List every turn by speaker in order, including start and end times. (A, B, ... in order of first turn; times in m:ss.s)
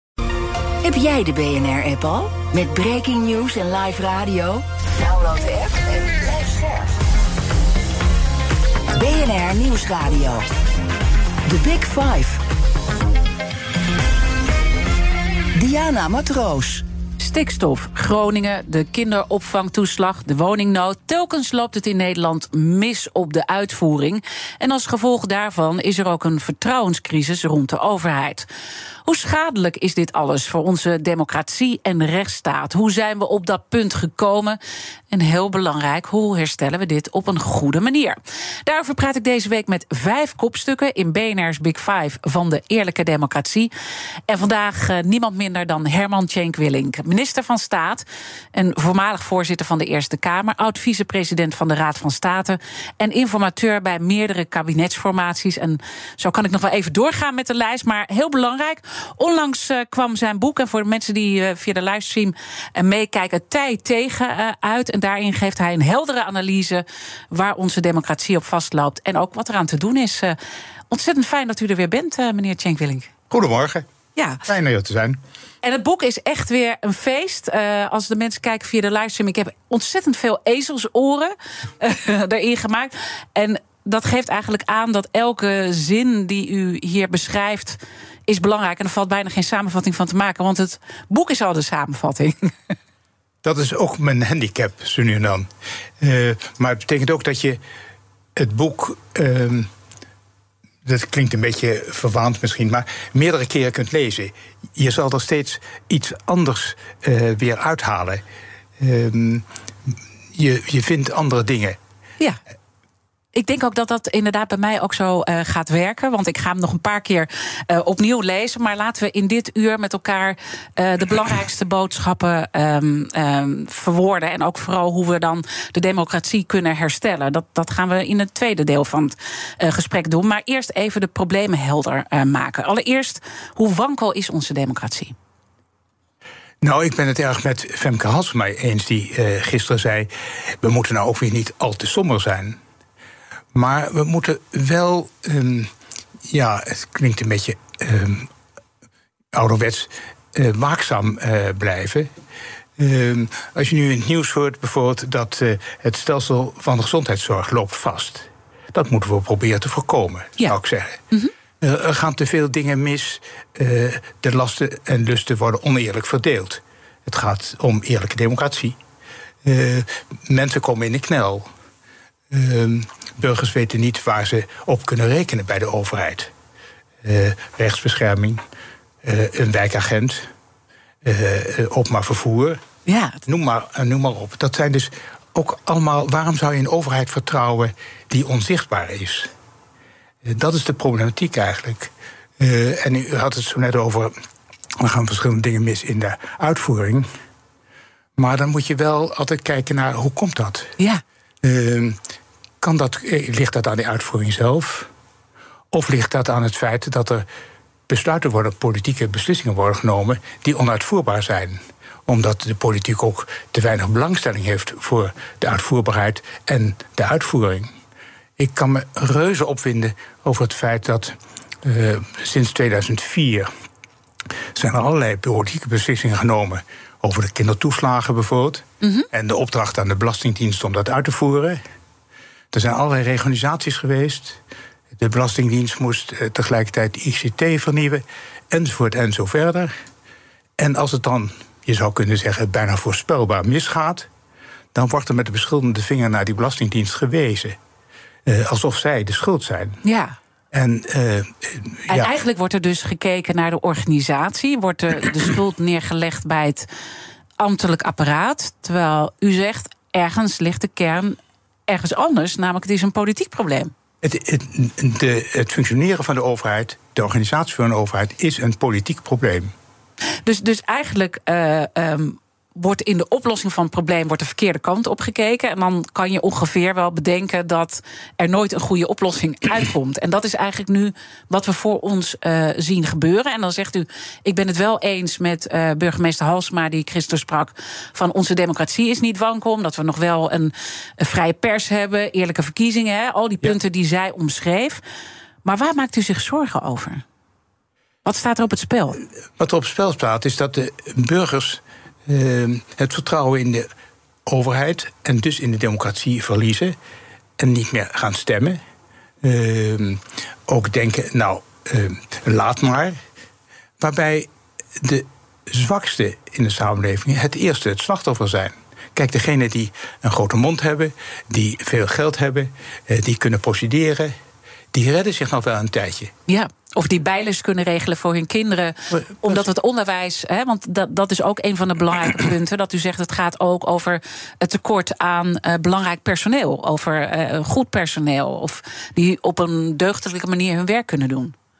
0:00.8-0:06.9 A
0:08.9-0:10.4 A
0:11.4-0:12.4 A
0:15.5-0:16.8 A
0:17.2-0:28.5 B
0:29.0-0:34.6 B
0:35.1-0:43.7 B
0:44.3-1:10.4 B
1:10.9-1:13.1 B
1:13.3-1:13.9 C
1:14.2-1:14.4 B
1:14.4-1:15.2 C
1:15.6-1:32.5 B
1:33.4-1:35.5 C
1:36.0-1:37.6 C
1:38.4-1:39.7 C
1:40.8-1:48.2 C
1:48.8-1:49.4 C
1:50.3-1:51.8 C
1:53.3-2:15.1 B
2:16.6-2:22.6 C
2:23.5-2:25.7 C
2:26.3-2:28.3 C
2:29.3-2:32.1 C
2:32.8-2:41.0 C
2:41.6-2:48.8 C
2:49.4-2:51.5 C
2:52.3-2:56.3 C
2:57.0-2:58.4 C
2:59.0-3:00.3 C
3:01.0-3:02.6 C
3:02.8-3:03.2 B
3:03.3-3:09.3 C
3:10.2-3:14.1 C
3:14.8-3:17.1 C
3:18.2-3:20.7 C
3:21.4-3:22.0 C
3:22.6-3:24.9 C
3:25.7-3:27.2 C
3:27.9-3:37.7 C
3:38.4-3:43.5 C
3:44.5-3:51.6 C
3:48.8-3:49.1 B
3:52.5-3:54.4 C
3:55.0-3:59.7 C
4:00.6-4:04.1 C
4:04.7-4:07.6 C
4:08.2-4:09.8 C
4:09.8-4:10.1 B
4:10.5-4:12.1 C
4:11.9-4:16.7 B
4:17.4-4:21.2 B
4:21.7-4:23.7 B
4:24.0-4:29.5 C
4:30.2-4:54.8 B
4:55.4-4:57.0 B
4:58.0-4:59.0 B
4:59.4-5:03.7 C
5:04.2-5:06.8 C
5:07.4-5:08.6 C
5:09.2-5:13.0 C
5:13.8-5:24.1 C
5:24.7-5:26.1 C
5:26.3-5:41.3 B
5:28.9-5:29.5 C